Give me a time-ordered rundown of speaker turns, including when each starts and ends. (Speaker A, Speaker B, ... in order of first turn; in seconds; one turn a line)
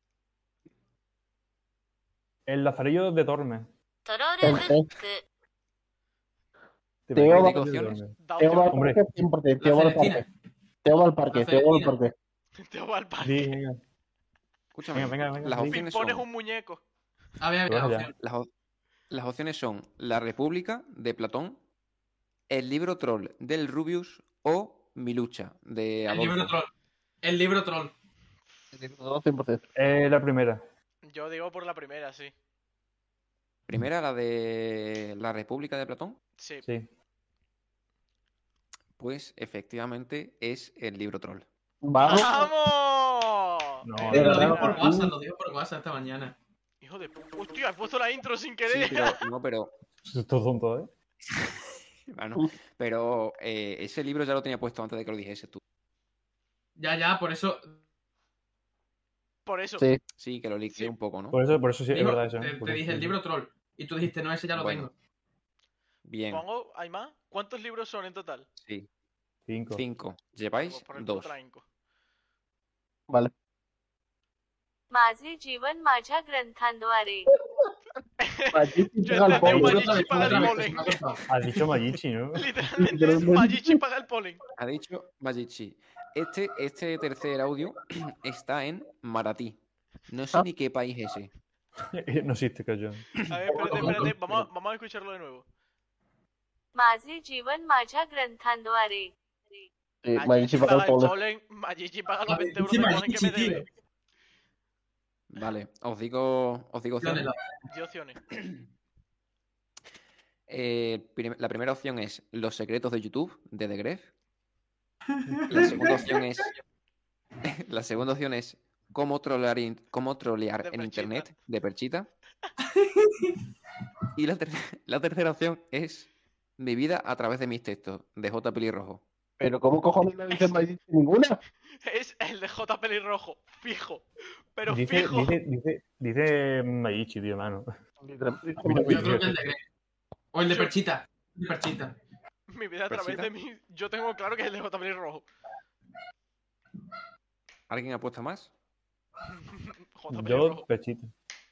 Speaker A: 2.5-3.7
Speaker B: 4.0-5.2
Speaker C: 4.4-4.9
Speaker A: 7.1-8.2
Speaker C: 7.1-7.6
Speaker D: 7.2-8.0
Speaker E: 8.2-8.8
Speaker C: 8.4-10.3
Speaker A: 8.7-9.2
Speaker F: 9.6-10.3
Speaker C: 10.8-12.1
Speaker F: 11.3-11.9
Speaker E: 12.6-13.6
Speaker A: 13.2-13.8
Speaker D: 14.7-16.3
Speaker A: 14.9-15.8
Speaker E: 15.7-16.8
Speaker F: 17.4-18.1
Speaker A: 17.6-18.1
Speaker D: 18.2-18.5
Speaker D: 19.1-21.6
Speaker D: 22.5-26.5
Speaker F: 26.1-26.7
Speaker F: 27.2-27.9
Speaker C: 28.7-29.6
Speaker A: 29.8-30.6
Speaker E: 31.0-32.3
Speaker D: 33.7-36.2
Speaker E: 36.4-36.6
Speaker D: 39.0-41.5
Speaker C: 41.8-42.5
Speaker E: 42.0-44.8
Speaker A: 43.8-44.5
Speaker F: 44.1-46.4
Speaker C: 44.1-45.1
Speaker E: 46.8-49.2
Speaker D: 48.7-49.7
Speaker A: 50.0-50.9
Speaker D: 52.1-55.6
Speaker F: 56.8-57.8
Speaker E: 59.5-59.9
Speaker D: 60.2-61.4
Speaker A: 61.3-63.1
Speaker F: 61.9-64.9
Speaker D: 64.5-64.9
Speaker D: 66.0-66.4
Speaker E: 66.3-68.5
Speaker D: 68.6-68.9
Speaker A: 69.5-69.8
Speaker D: 69.7-71.3
Speaker E: 70.6-71.6
Speaker B: 74.9-77.3
Speaker E: 78.2-81.0
Speaker C: 78.5-80.7
Speaker F: 79.3-81.2
Speaker A: 79.4-79.8
Speaker A: 81.3-82.5
Speaker E: 82.3-84.4
Speaker C: 82.8-83.8
Speaker D: 84.6-89.6
Speaker D: 90.1-91.3
Speaker A: 91.9-93.1
Speaker E: 93.2-95.4
Speaker F: 93.5-94.1
Speaker A: 93.8-94.4
Speaker B: 96.7-99.7
Speaker C: 100.0-101.2
Speaker E: 100.2-103.7
Speaker F: 102.3-103.7
Speaker D: 105.3-107.3
Speaker F: 107.0-107.4
Speaker E: 107.7-108.2
Speaker D: 110.5-114.1
Speaker F: 115.1-116.5
Speaker D: 115.5-116.5
Speaker D: 117.4-122.1
Speaker E: 120.6-121.3
Speaker F: 122.6-123.4
Speaker D: 124.2-129.0
Speaker C: 129.4-131.4
Speaker E: 130.3-130.6
Speaker E: 131.8-135.4
Speaker A: 134.7-137.7
Speaker C: 138.0-139.2
Speaker A: 138.6-139.4
Speaker F: 138.8-139.6
Speaker F: 140.3-141.9
Speaker E: 140.5-140.7
Speaker E: 142.5-145.3
Speaker D: 142.9-143.3
Speaker D: 147.7-148.5
Speaker E: 149.3-150.7
Speaker A: 150.1-151.1